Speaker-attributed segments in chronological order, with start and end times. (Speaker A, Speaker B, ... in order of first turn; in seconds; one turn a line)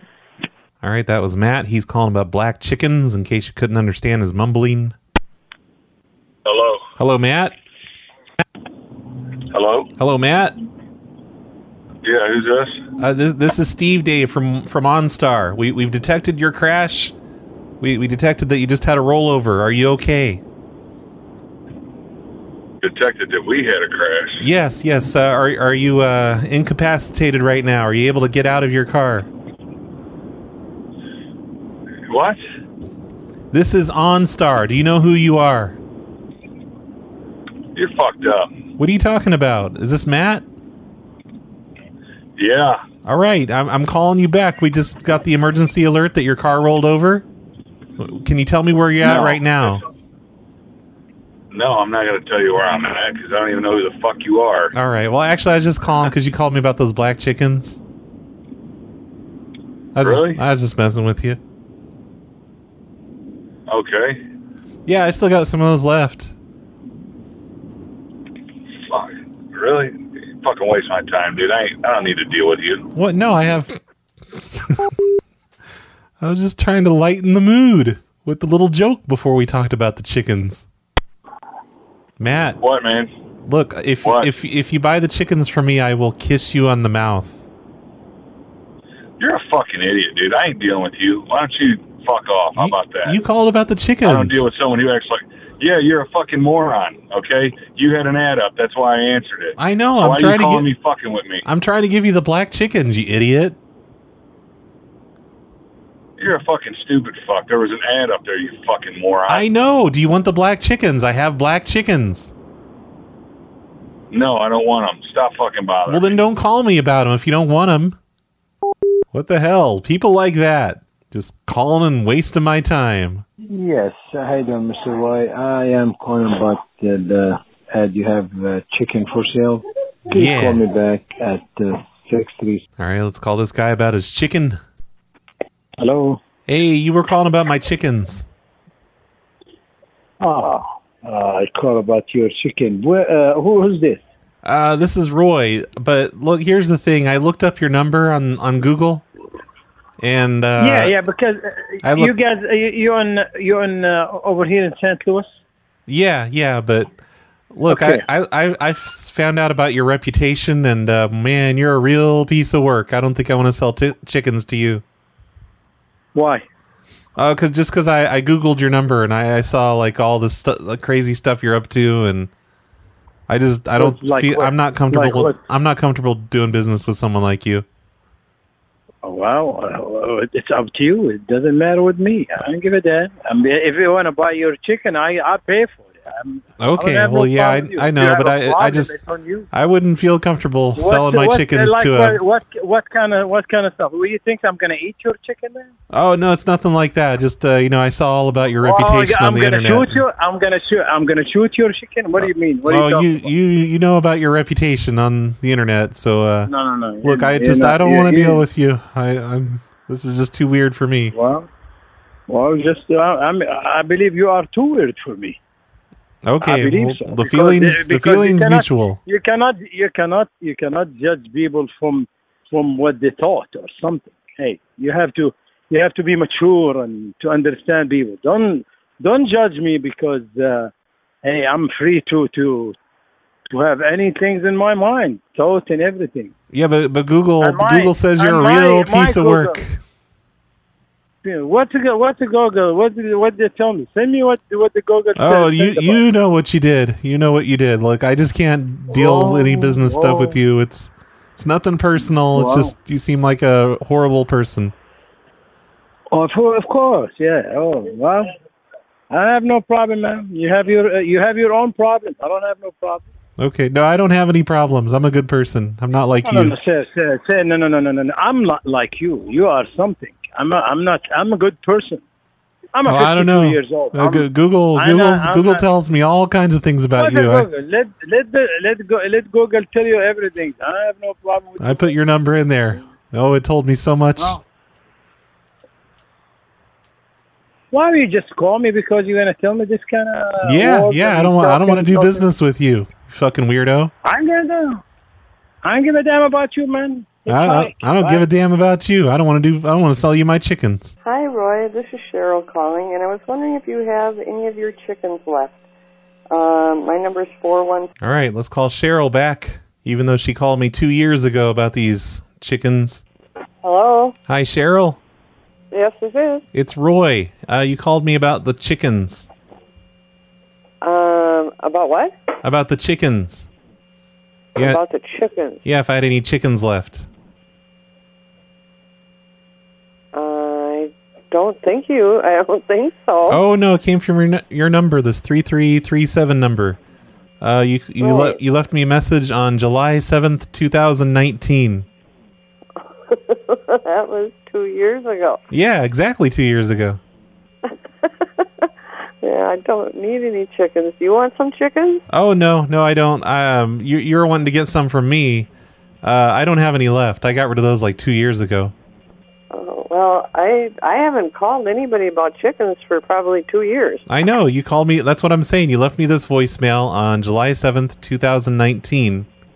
Speaker A: 0.8-5.0
Speaker B: 6.4-6.8
Speaker A: 7.0-7.5
Speaker B: 9.5-9.9
Speaker A: 10.0-10.6
Speaker B: 12.0-12.8
Speaker A: 13.0-17.1
Speaker A: 17.8-20.4
Speaker B: 22.8-24.4
Speaker A: 24.4-29.3
Speaker B: 32.1-32.4
Speaker A: 33.5-35.8
Speaker B: 37.7-38.6
Speaker A: 38.8-40.4
Speaker B: 42.4-42.8
Speaker A: 43.0-47.2
Speaker A: 48.0-49.8
Speaker B: 49.0-49.4
Speaker B: 51.5-54.7
Speaker A: 54.7-57.8
Speaker A: 59.9-61.4
Speaker B: 60.0-60.4
Speaker B: 63.7-64.2
Speaker A: 64.8-66.3
Speaker B: 68.9-72.8
Speaker A: 72.9-73.8
Speaker A: 74.3-74.9
Speaker A: 76.2-80.7
Speaker A: 82.2-82.6
Speaker B: 82.6-83.1
Speaker A: 83.4-87.4
Speaker B: 84.0-84.3
Speaker B: 89.2-93.2
Speaker A: 92.5-94.5
Speaker B: 94.0-101.4
Speaker A: 99.6-100.7
Speaker A: 101.4-103.6
Speaker B: 106.2-109.5
Speaker A: 109.3-112.3
Speaker B: 114.1-116.2
Speaker A: 115.9-118.0
Speaker A: 119.1-123.2
Speaker C: 124.2-125.5
Speaker C: 126.1-126.6
Speaker C: 128.2-128.5
Speaker A: 130.1-130.6
Speaker C: 130.9-131.4
Speaker A: 132.8-134.6
Speaker D: 135.8-136.2
Speaker A: 136.5-138.2
Speaker D: 140.2-144.0
Speaker A: 144.4-149.1
Speaker A: 150.0-150.9
Speaker D: 150.6-155.3
Speaker A: 151.8-152.1
Speaker A: 155.9-156.9
Speaker A: 157.5-164.8
Speaker D: 157.7-158.0
Speaker D: 166.1-166.4
Speaker A: 167.2-172.3
Speaker A: 173.3-177.6
Speaker D: 173.8-175.4
Speaker D: 179.0-189.5
Speaker A: 186.6-188.9
Speaker A: 189.5-192.2
Speaker D: 190.7-195.7
Speaker A: 195.9-200.0
Speaker D: 198.6-203.3
Speaker A: 202.2-206.5
Speaker D: 206.5-208.4
Speaker A: 207.0-211.1
Speaker D: 211.1-211.5
Speaker D: 212.3-215.4
Speaker A: 216.2-219.0
Speaker D: 216.4-230.7
Speaker D: 231.2-232.7
Speaker D: 233.5-236.3
Speaker A: 236.5-239.8
Speaker D: 237.4-239.6
Speaker D: 241.2-246.0
Speaker A: 245.2-254.7
Speaker D: 248.9-250.4
Speaker D: 252.3-252.7
Speaker D: 256.1-258.3
Speaker D: 259.1-263.0
Speaker A: 263.4-266.5
Speaker D: 266.2-272.0
Speaker D: 272.7-275.6
Speaker A: 272.9-277.4
Speaker D: 276.9-281.9
Speaker A: 281.6-284.4
Speaker D: 287.7-292.3
Speaker A: 290.4-293.9
Speaker D: 294.0-294.8
Speaker D: 295.6-298.2
Speaker A: 297.3-300.9
Speaker E: 301.0-305.6
Speaker E: 306.3-307.9
Speaker A: 308.0-313.0
Speaker E: 313.6-314.1
Speaker A: 314.3-315.0
Speaker E: 315.7-316.4
Speaker A: 316.5-319.3
Speaker E: 320.8-322.1
Speaker A: 322.4-323.5
Speaker E: 324.6-325.6
Speaker A: 325.6-327.1
Speaker E: 330.1-333.4
Speaker A: 333.3-336.8
Speaker A: 337.4-341.9
Speaker E: 338.0-338.4
Speaker E: 343.1-345.4
Speaker A: 345.5-347.0
Speaker E: 347.7-348.1
Speaker E: 349.2-352.0
Speaker A: 352.1-355.5
Speaker A: 356.0-358.7
Speaker E: 359.5-364.0
Speaker A: 364.1-369.3